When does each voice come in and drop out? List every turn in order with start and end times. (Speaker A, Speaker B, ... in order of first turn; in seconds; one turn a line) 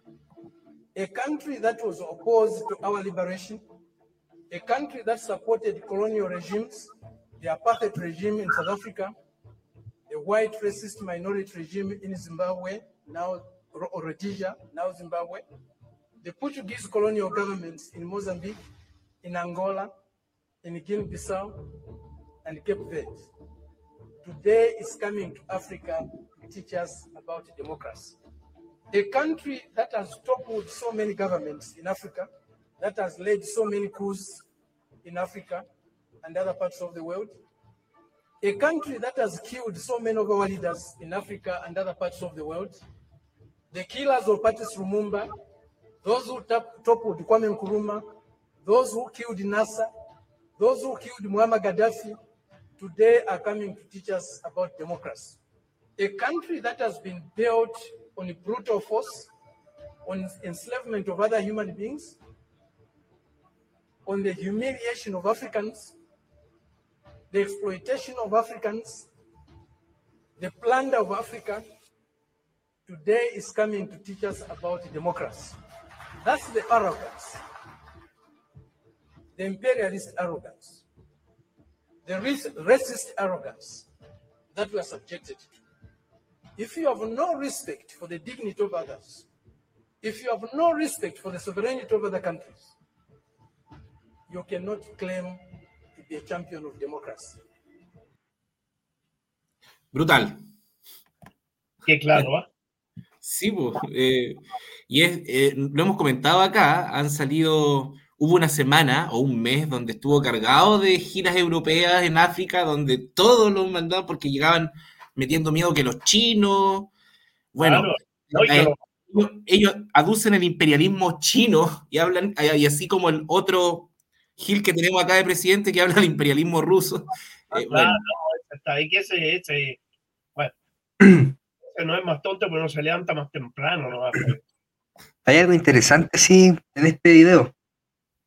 Speaker A: 0.9-3.6
Speaker A: 4.5-9.1
Speaker A: 10.1-15.4
Speaker A: 16.2-18.6
Speaker A: 19.2-19.9
Speaker A: 20.6-21.6
Speaker A: 22.4-23.3
Speaker A: 24.2-28.2
Speaker A: 28.9-34.5
Speaker A: 35.0-35.6
Speaker A: 36.2-37.4
Speaker A: 38.4-42.8
Speaker A: 43.7-45.3
Speaker A: 46.0-48.0
Speaker A: 48.6-49.9
Speaker A: 50.6-52.2
Speaker A: 52.8-55.4
Speaker A: 56.0-59.3
Speaker A: 60.0-62.2
Speaker A: 64.0-66.0
Speaker A: 67.3-69.1
Speaker A: 70.4-71.6
Speaker A: 72.8-75.5
Speaker A: 76.2-77.4
Speaker A: 79.3-80.8
Speaker A: 82.0-83.9
Speaker A: 84.5-85.5
Speaker A: 86.5-89.3
Speaker A: 90.0-92.7
Speaker A: 94.3-95.4
Speaker A: 95.9-97.4
Speaker B: 99.9-100.4
Speaker C: 101.8-102.5
Speaker B: 103.2-116.9
Speaker B: 117.5-128.0
Speaker C: 117.6-118.8
Speaker C: 127.5-129.8
Speaker C: 131.6-134.4
Speaker D: 135.2-137.5